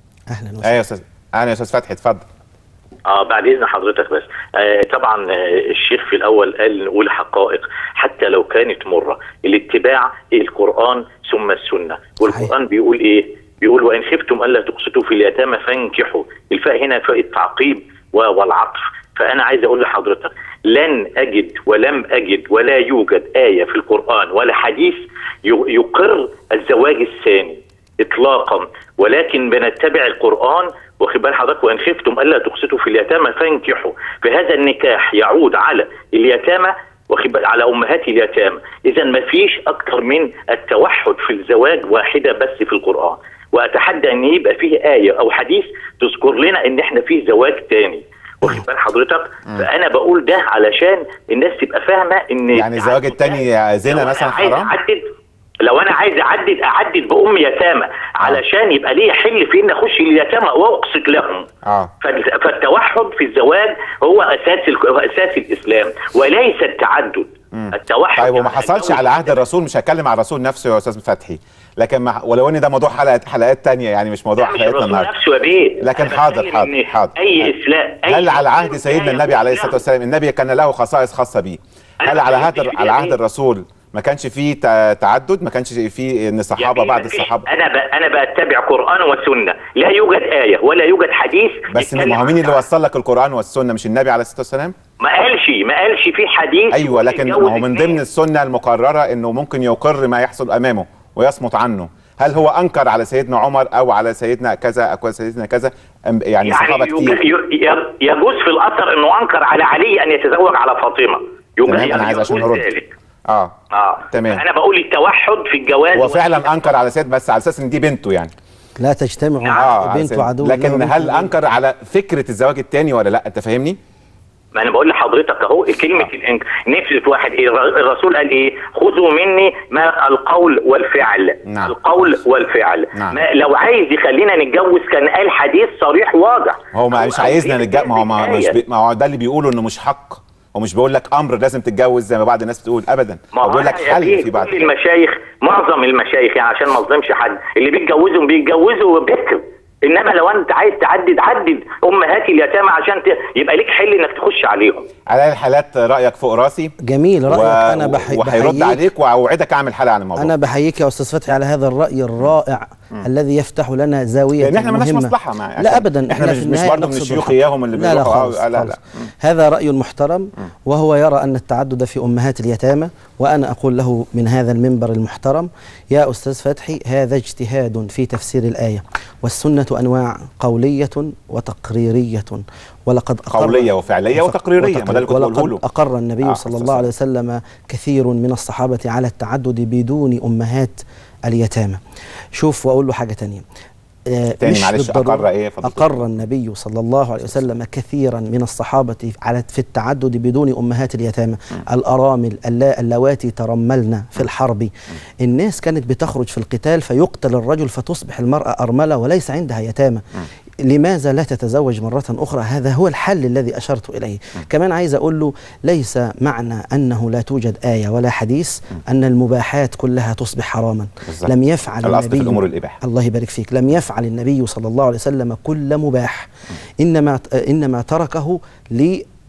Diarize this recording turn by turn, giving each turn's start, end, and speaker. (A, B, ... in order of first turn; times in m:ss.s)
0:00.3-0:00.7 A
0:00.6-0:02.2 B
0:03.1-0:55.0 C
0:52.5-0:54.7 B
0:55.6-1:01.4 C
1:01.6-1:01.9 B
1:02.0-1:09.4 C
1:07.5-1:15.1 B
1:14.4-1:19.8 C
1:15.8-1:17.3 B
1:18.1-1:27.5 B
1:22.0-1:23.1 C
1:26.6-1:32.6 C
1:31.7-1:34.7 B
1:35.0-1:38.0 C
1:36.7-1:47.2 B
1:46.4-1:52.9 C
1:51.7-1:52.6 B
1:53.7-1:56.4 C
1:54.1-1:54.4 B
1:55.9-1:58.3 B
1:58.8-2:01.3 A
1:59.4-1:59.7 C
1:59.5-2:03.8 B
2:04.5-2:18.6 C
2:11.5-2:11.7 B
2:12.9-2:13.2 B
2:16.7-2:24.7 B
2:23.3-2:34.8 C
2:35.1-2:36.7 B
2:36.8-2:38.8 A
2:37.3-2:40.3 B
2:40.2-3:11.8 A
2:44.4-2:49.1 B
3:03.3-3:05.6 B
3:06.2-3:06.9 B
3:12.4-3:13.4 A
3:14.1-3:30.0 A
3:14.4-3:16.0 B
3:30.6-3:46.3 A
3:41.0-3:41.3 B
3:41.8-3:42.8 B
3:46.8-3:49.0 A